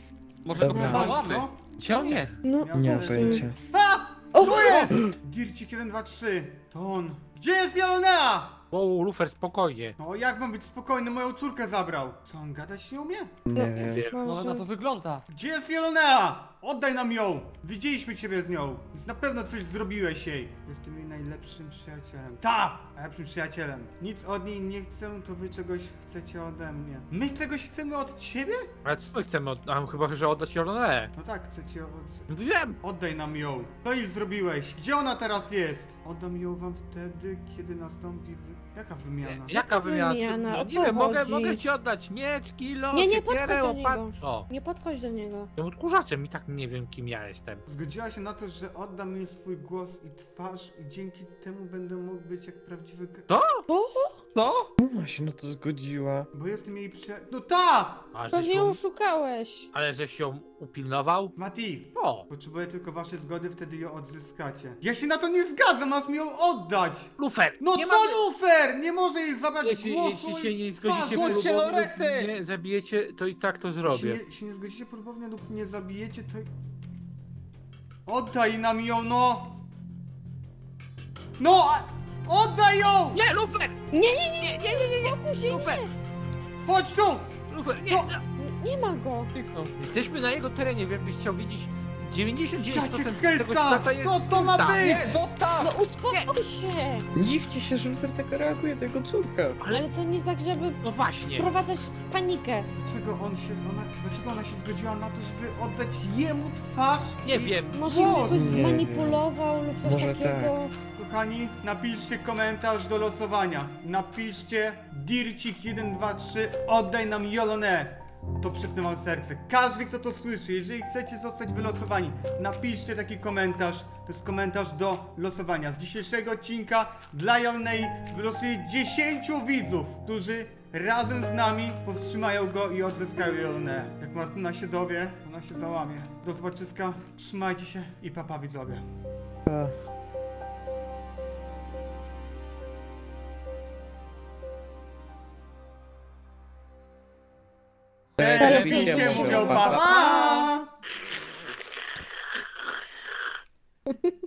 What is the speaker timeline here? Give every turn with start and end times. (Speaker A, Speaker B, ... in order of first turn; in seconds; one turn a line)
Speaker A: 0.5-2.4
Speaker B: 0.6-1.2
Speaker C: 0.7-1.8
Speaker D: 0.8-1.1
Speaker C: 2.4-8.6
Speaker D: 2.4-3.5
Speaker B: 2.7-3.6
Speaker D: 4.3-5.0
Speaker B: 4.6-5.1
Speaker E: 8.7-10.0
Speaker C: 10.0-13.3
Speaker B: 13.5-14.1
Speaker D: 13.5-14.6
Speaker E: 13.8-14.2
Speaker A: 14.2-15.2
Speaker C: 15.3-28.7
Speaker E: 28.9-31.1
Speaker C: 31.2-32.3
Speaker E: 32.3-32.8
Speaker C: 32.8-39.7
Speaker E: 39.3-44.5
Speaker D: 39.7-41.6
Speaker D: 42.9-45.5
Speaker E: 45.6-47.6
Speaker C: 47.7-53.3
Speaker E: 53.3-53.7
Speaker D: 53.7-54.2
Speaker A: 54.4-54.7
Speaker B: 54.8-56.3
Speaker C: 56.3-58.1
Speaker E: 58.1-58.8
Speaker D: 58.3-59.7
Speaker E: 59.7-61.3
Speaker C: 61.4-71.5
Speaker E: 62.0-62.2
Speaker E: 67.2-68.2
Speaker E: 69.6-74.2
Speaker A: 71.0-72.3
Speaker C: 73.8-76.5
Speaker C: 78.1-79.6
Speaker C: 81.4-83.2
Speaker E: 83.2-83.8
Speaker D: 83.9-85.9
Speaker E: 84.4-85.8
Speaker C: 86.6-88.2
Speaker E: 87.5-88.2
Speaker D: 88.4-89.3
Speaker A: 89.3-89.7
Speaker E: 89.8-95.2
Speaker C: 92.6-95.2
Speaker A: 94.9-95.7
Speaker D: 95.6-97.1
Speaker B: 97.2-99.6
Speaker E: 99.6-99.9
Speaker D: 99.7-102.7
Speaker E: 100.8-101.5
Speaker C: 102.8-108.7
Speaker E: 107.2-108.2
Speaker D: 107.7-110.7
Speaker B: 108.3-109.2
Speaker B: 109.8-110.5
Speaker C: 111.0-138.8
Speaker B: 139.5-139.8
Speaker B: 148.2-149.9
Speaker A: 148.2-150.1
Speaker C: 148.2-150.7
Speaker D: 148.4-150.5